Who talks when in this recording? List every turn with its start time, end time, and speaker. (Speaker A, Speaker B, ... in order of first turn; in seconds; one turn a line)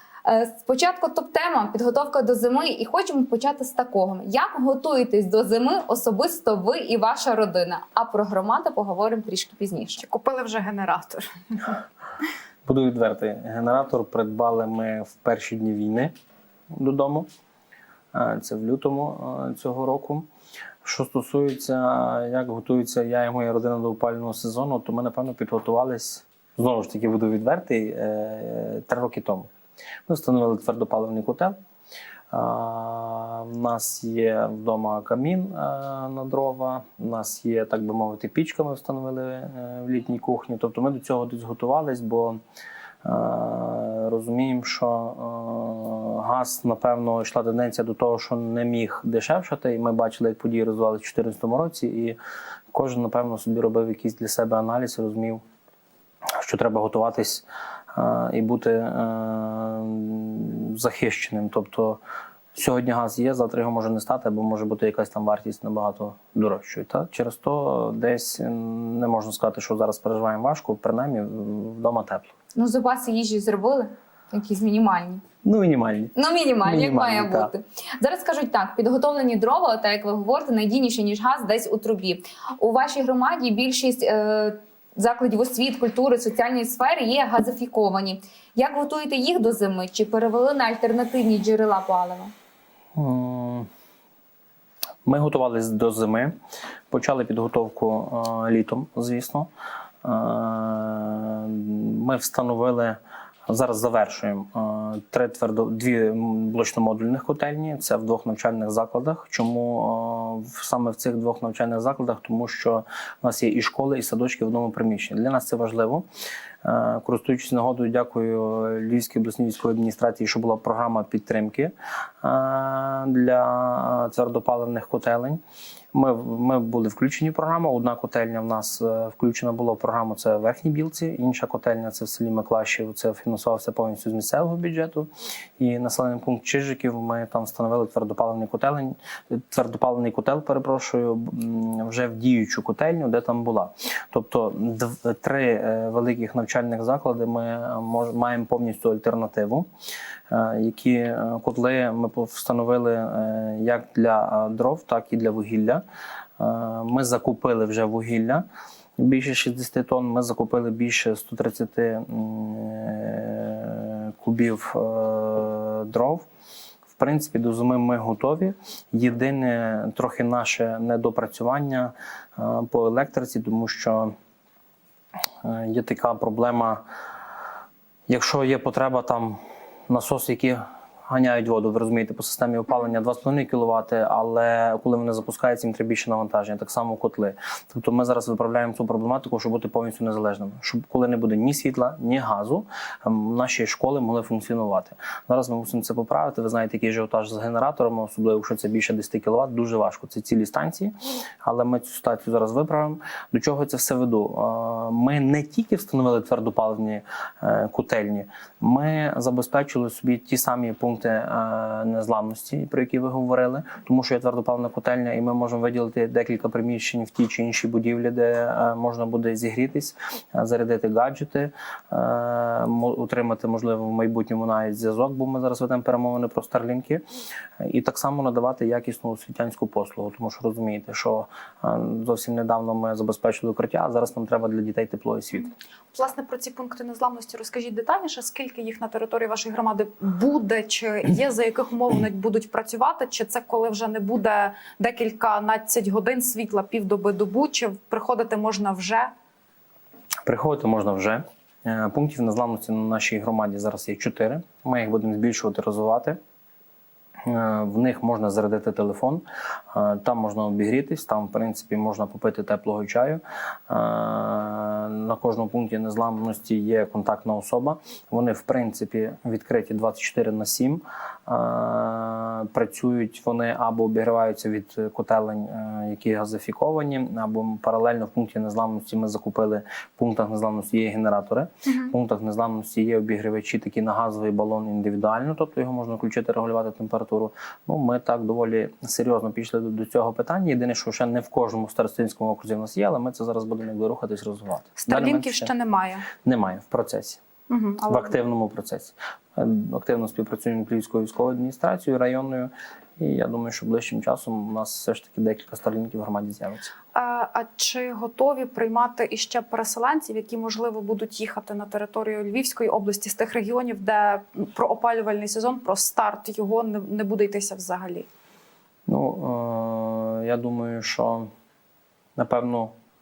Speaker A: 0.2-10.0
Speaker B: 10.0-11.8
Speaker C: 12.6-16.1
Speaker C: 16.7-17.3
Speaker C: 18.1-20.3
Speaker C: 20.8-29.5
Speaker C: 30.1-31.5
Speaker C: 32.3-42.4
Speaker C: 43.0-52.2
Speaker C: 52.7-55.4
Speaker C: 56.4-62.0
Speaker C: 62.5-72.3
Speaker A: 72.5-75.2
Speaker C: 75.4-77.5
Speaker A: 76.1-92.3
Speaker C: 93.0-93.7
Speaker C: 95.0-96.3
Speaker C: 96.9-99.5
Speaker C: 100.0-116.0
Speaker C: 116.6-125.4
Speaker C: 125.9-149.7
Speaker C: 150.3-155.8
Speaker C: 156.4-158.4
Speaker C: 159.0-166.2
Speaker C: 166.9-174.1
Speaker C: 175.4-176.8
Speaker C: 178.1-227.0
Speaker C: 227.6-235.5
Speaker B: 235.9-249.1
Speaker C: 250.2-256.2
Speaker C: 257.2-295.5
Speaker B: 281.6-281.9
Speaker B: 294.8-296.1
Speaker C: 296.1-297.2
Speaker B: 297.5-298.1
Speaker C: 297.9-306.7
Speaker B: 306.9-318.1
Speaker C: 318.9-321.3
Speaker C: 322.1-322.7